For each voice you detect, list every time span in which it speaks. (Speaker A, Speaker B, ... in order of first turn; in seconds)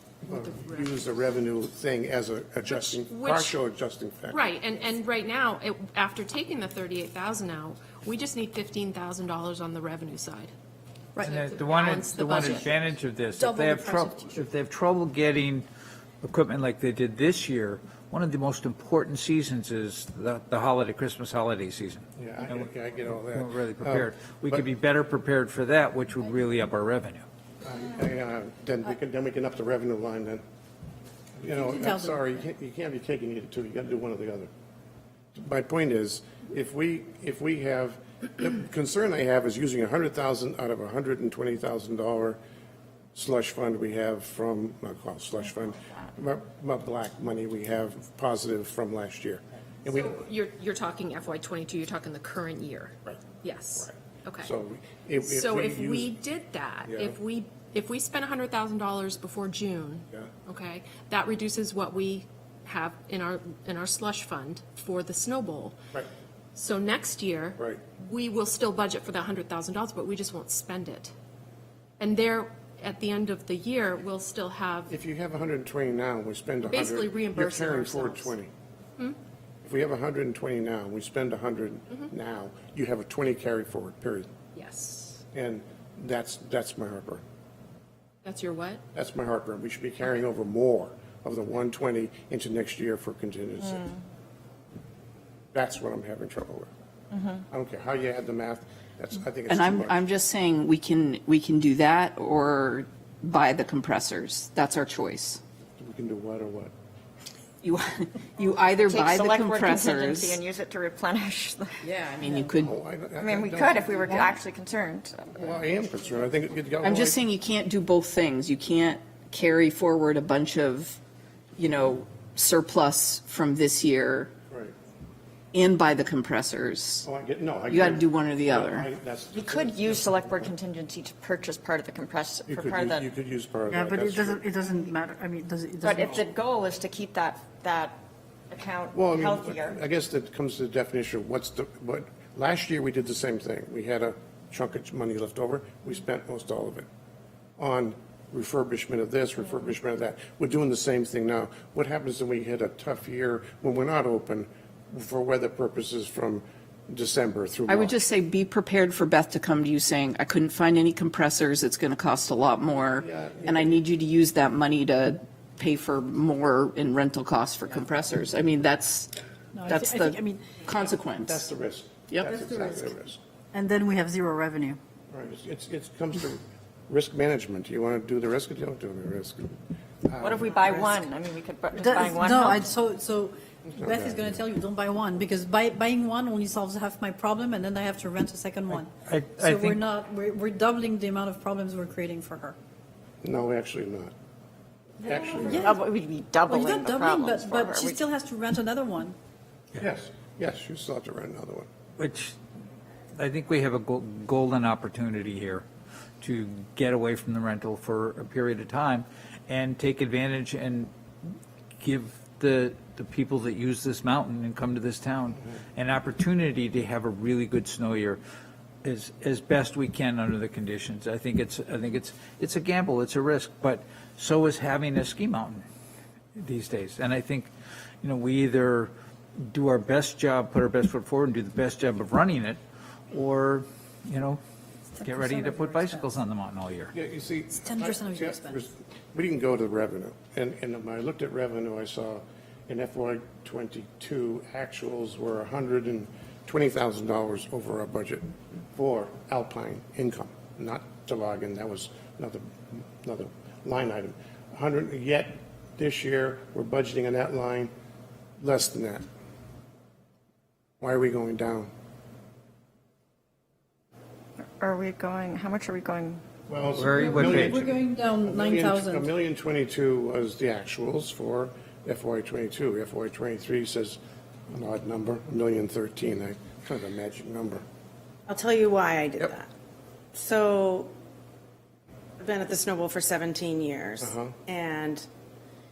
Speaker A: 0.3-1.0, 2.7-3.6, 4.3-10.5, 11.2-12.9, 49.9-54.5, 55.2-65.8, 66.5-71.1, 72.0-74.9, 76.6-78.3, 84.5-85.2, 88.2-88.8
Speaker B: 0.3-4.4, 22.2-24.7, 27.6-30.4, 31.4-34.5, 35.4-42.4, 43.1-50.2, 54.4-56.1, 56.9-57.2, 74.9-78.5, 79.6-84.3, 85.3-87.2, 88.9-94.0, 95.5-96.7, 97.5-100.1, 105.8-106.7, 112.5-114.3, 115.3-117.2, 127.0-130.5, 132.5-134.4, 138.9-146.9, 147.6-157.9, 162.8-163.8, 171.2-173.2, 175.1-181.1, 183.7-184.4, 193.2-194.1, 195.0-195.8, 199.8-201.7, 236.9-257.7, 258.4-259.1, 260.8-261.7, 266.5-277.6, 284.0-284.3
Speaker C: 11.2-15.7, 16.2-27.2, 188.7-189.8, 202.0-202.3, 203.2-205.7, 206.2-210.9, 211.8-218.2, 218.8-225.6, 226.4-227.5, 228.0-228.9, 229.5-232.6, 233.1-234.4, 235.0-236.9, 266.7-267.6
Speaker D: 13.3-14.4, 31.5-32.2, 133.7-136.2, 169.5-170.5, 172.3-172.9, 173.5-174.8, 181.8-192.6, 195.5-195.8, 196.5-199.2, 235.0-236.2, 237.6-238.7, 267.0-269.1
Speaker E: 97.1-97.4, 108.8-111.8, 113.2-115.6, 129.3-133.1, 135.8-138.0, 138.5-139.8, 180.2-182.7, 195.0-198.1, 264.4-266.2
Speaker F: 99.5-105.4, 107.6-110.4, 111.8-112.7, 116.8-121.0, 121.6-124.3, 125.5-127.1, 127.7-128.9, 157.7-169.1, 169.7-171.4
Speaker G: 278.3-279.5, 280.1-280.9, 282.2-285.1